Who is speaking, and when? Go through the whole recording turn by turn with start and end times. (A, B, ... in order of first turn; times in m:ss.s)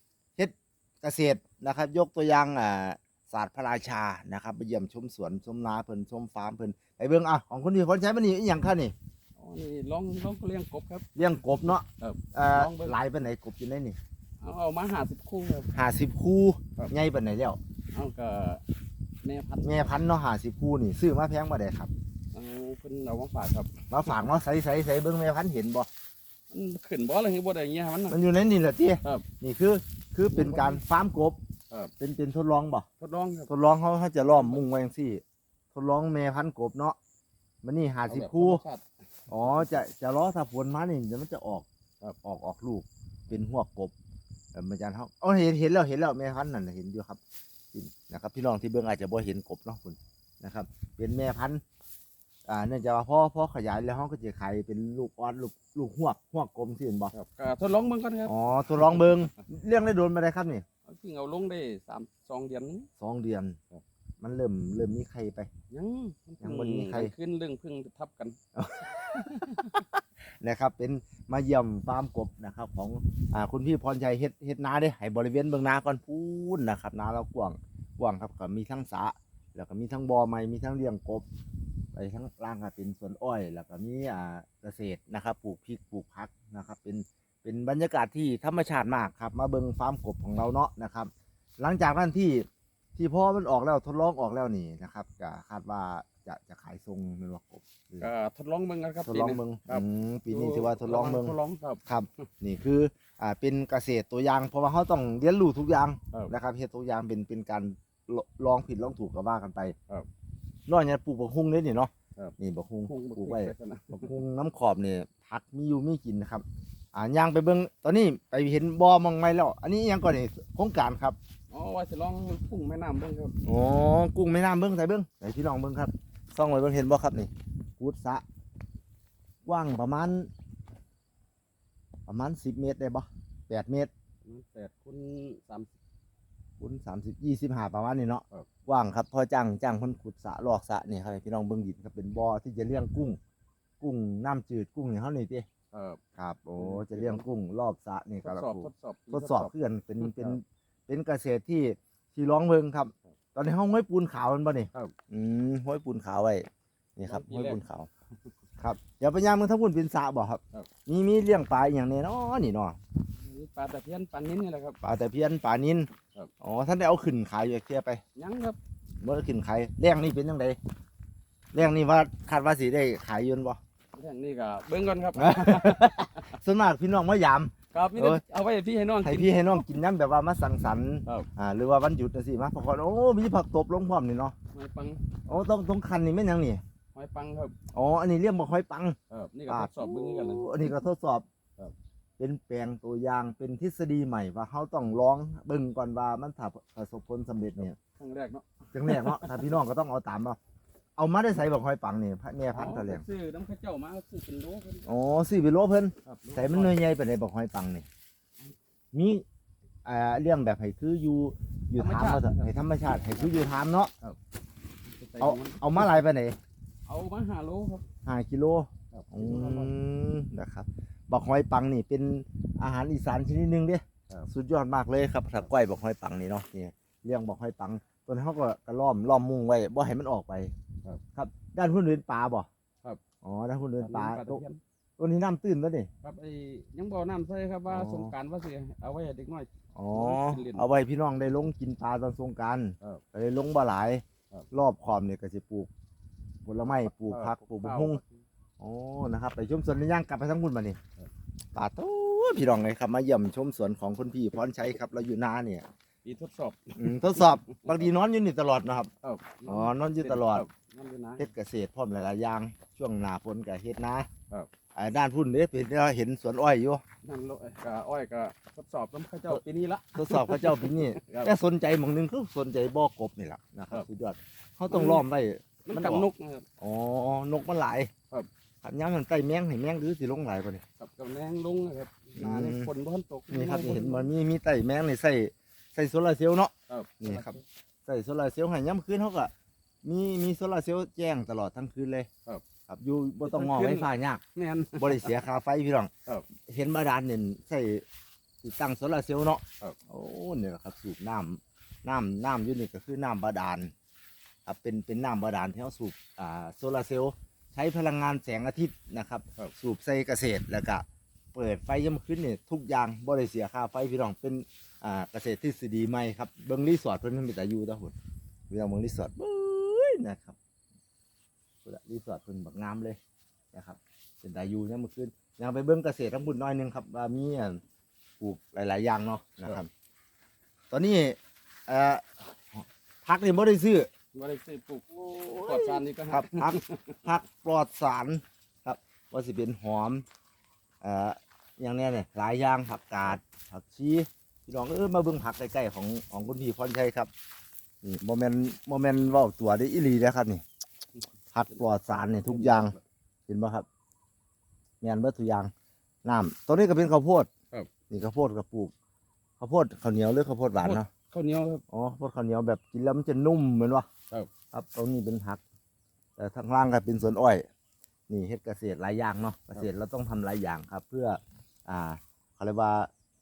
0:00.4-0:08.9 A
0:09.4-0:11.1 B
0:11.1-0:14.0 A
0:12.0-0:13.0 B
0:14.4-0:15.7 B
0:15.7-0:17.6 A
0:17.9-0:18.6 B
0:19.2-0:19.9 B
0:19.6-0:21.9 A
0:22.3-0:23.8 B
0:23.9-0:25.9 A
0:26.5-0:28.2 B
0:28.1-0:31.4 A
0:30.3-0:30.8 B
0:32.0-0:32.9 A
0:33.0-0:33.5 B
0:33.5-0:35.2 A
0:34.2-0:34.6 B
0:35.7-0:37.0 A
0:37.6-0:38.6 A
0:38.1-0:38.8 B
0:39.3-0:41.6 A
0:42.2-0:43.9 A
0:44.5-0:47.2 A
0:47.7-0:51.6 A
0:52.5-0:57.1 A
0:57.1-0:59.2 B
0:58.2-1:00.6 A
1:00.9-1:02.9 B
1:03.0-1:03.6 A
1:04.2-1:05.5 A
1:05.7-1:08.4 B
1:06.4-1:07.1 A
1:08.6-1:21.2 A
1:09.2-1:09.7 B
1:21.9-1:38.1 A
1:38.0-1:41.8 B
1:39.0-1:49.7 A
1:50.7-2:01.2 A
1:52.8-1:54.1 B
2:01.5-2:03.4 B
2:03.4-2:08.2 A
2:09.4-2:10.3 A
2:12.1-2:13.9 A
2:14.2-2:15.7 B
2:16.6-2:23.2 A
2:23.8-2:25.5 A
2:25.7-2:26.0 B
2:26.2-2:37.9 A
2:26.6-2:27.2 B
2:28.2-2:30.4 B
2:37.1-2:37.6 B
2:38.6-2:42.8 A
2:43.2-2:44.8 B
2:44.8-2:45.9 A
2:46.4-2:48.0 A
2:48.2-2:48.6 B
2:49.0-2:50.6 A
2:51.5-2:53.6 A
2:53.9-2:56.4 B
2:55.2-2:58.2 A
2:57.7-2:59.6 B
2:59.0-3:04.3 A
3:04.5-3:05.0 B
3:05.2-3:06.6 A
3:06.9-3:07.5 B
3:07.7-3:09.0 A
3:09.1-3:10.7 B
3:09.5-3:11.2 A
3:12.2-3:17.8 A
3:18.0-3:19.6 B
3:18.7-3:20.4 A
3:21.0-3:23.0 A
3:22.5-3:24.8 B
3:24.8-3:27.8 A
3:26.0-3:26.8 B
3:28.9-3:29.2 A
3:29.8-3:33.9 A
3:31.8-3:32.5 B
3:33.0-3:33.4 B
3:34.8-3:36.0 B
3:35.2-3:36.4 A
3:36.8-3:37.8 B
3:38.0-3:50.5 A
3:38.9-3:39.7 B
3:51.1-3:52.5 A
3:53.2-3:54.4 A
3:53.8-3:54.6 B
3:55.0-3:55.9 A
3:56.0-4:00.6 B
3:57.7-3:58.1 A
3:59.7-4:05.7 A
4:06.4-4:08.0 A
4:07.1-4:08.1 B
4:08.6-4:10.8 A
4:11.5-4:15.7 A
4:16.0-4:17.8 B
4:16.8-4:18.9 A
4:19.0-4:21.2 B
4:19.4-4:20.4 A
4:21.2-4:24.1 A
4:24.7-4:26.8 A
4:27.0-4:31.3 B
4:29.9-4:36.1 A
4:34.7-4:35.0 B
4:35.7-4:36.4 B
4:36.6-4:37.9 A
4:38.6-4:40.6 A
4:40.8-4:44.1 B
4:42.2-4:42.7 A
4:43.3-4:49.3 A
4:46.7-4:47.4 B
4:49.8-4:52.1 A
4:52.7-4:54.2 A
4:53.2-4:55.2 B
4:54.8-4:55.9 A
4:56.5-4:57.8 A
4:58.4-5:03.7 A
5:04.4-5:17.9 A
5:18.5-5:20.4 A
5:21.6-5:23.0 A
5:23.5-5:27.6 A
5:28.2-5:29.7 A
5:30.7-5:33.9 A
5:34.1-5:37.0 B
5:34.9-5:40.0 A
5:40.8-5:47.1 A
5:47.8-5:50.4 A
5:51.3-5:52.8 A
5:51.7-5:52.8 B
5:53.3-5:53.6 A
5:54.8-5:55.5 A
5:56.0-5:57.3 A
5:57.9-5:58.7 A
5:59.4-6:00.9 A
6:00.6-6:01.6 B
6:01.7-6:03.9 A
6:04.5-6:05.4 A
6:06.2-6:07.4 A
6:08.1-6:12.9 A